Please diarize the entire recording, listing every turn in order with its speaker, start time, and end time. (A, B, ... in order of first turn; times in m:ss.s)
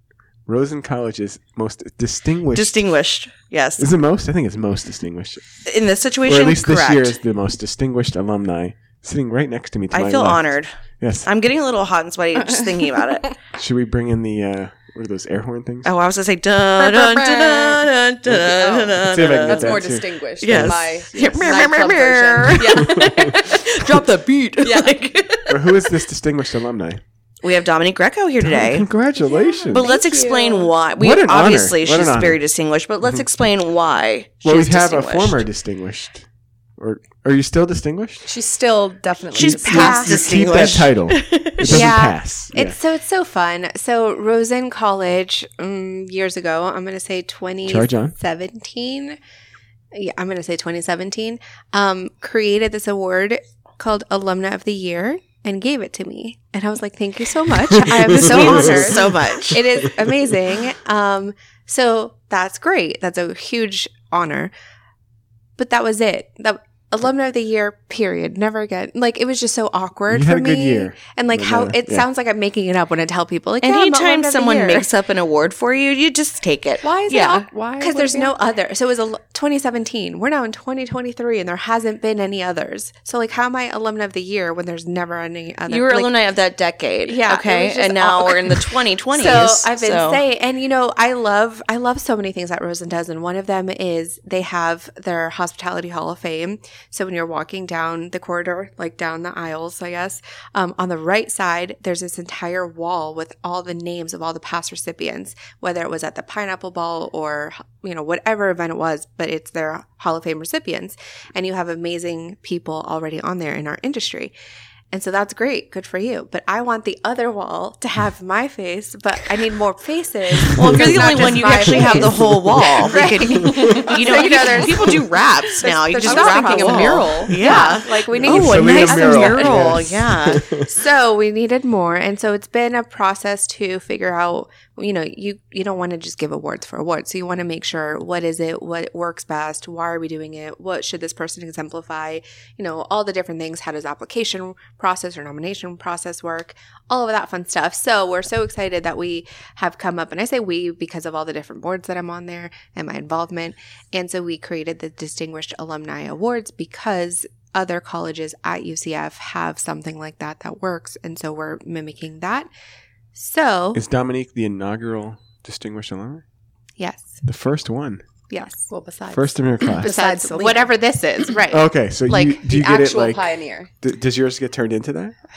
0:00.4-0:02.8 A
0:02.5-0:03.9 B
0:03.8-0:05.4 A
0:05.6-0:07.2 B
0:06.2-0:11.3 A
0:09.9-0:10.7 B
0:11.2-0:13.4 B
0:12.6-0:13.0 C
0:13.5-0:15.9 A
0:15.8-0:25.9 B
0:16.8-0:23.6 C
0:19.0-0:21.5 A
0:22.7-0:23.2 A
0:24.6-0:24.9 C
0:25.5-0:27.0 A
0:27.4-0:28.9 B
0:28.4-0:30.0 A
0:29.2-0:30.7 C
0:29.7-0:35.4 B
0:30.0-0:30.3 D
0:31.0-0:32.4 A
0:34.4-0:36.3 A
0:36.8-0:38.3 A
0:38.2-0:40.7 C
0:39.3-0:41.9 B
0:39.4-0:42.8 A
0:39.7-0:40.1 D
0:41.6-0:49.2 D
0:47.7-0:48.1 A
0:49.9-1:04.5 D
0:57.7-1:00.1 A
0:57.9-0:59.6 B
1:05.6-1:14.9 D
1:10.1-1:12.0 A
1:13.6-1:17.5 B
1:16.8-1:18.4 C
1:17.8-1:26.1 D
1:25.7-1:30.2 B
1:27.0-1:54.3 D
1:54.9-2:05.0 D
2:00.5-2:10.4 B
2:00.7-2:01.0 A
2:02.1-2:02.6 A
2:03.4-2:03.8 A
2:03.7-2:04.5 C
2:05.6-2:07.8 C
2:05.6-2:09.8 D
2:08.1-2:10.7 A
2:10.5-2:42.5 D
2:43.1-2:43.8 D
2:43.7-2:46.2 A
2:46.8-2:47.2 D
2:47.2-2:48.0 A
2:48.3-2:48.7 D
2:48.7-2:50.7 C
2:49.1-2:49.9 A
2:49.8-2:52.2 D
2:51.5-2:55.2 A
2:52.1-2:53.7 C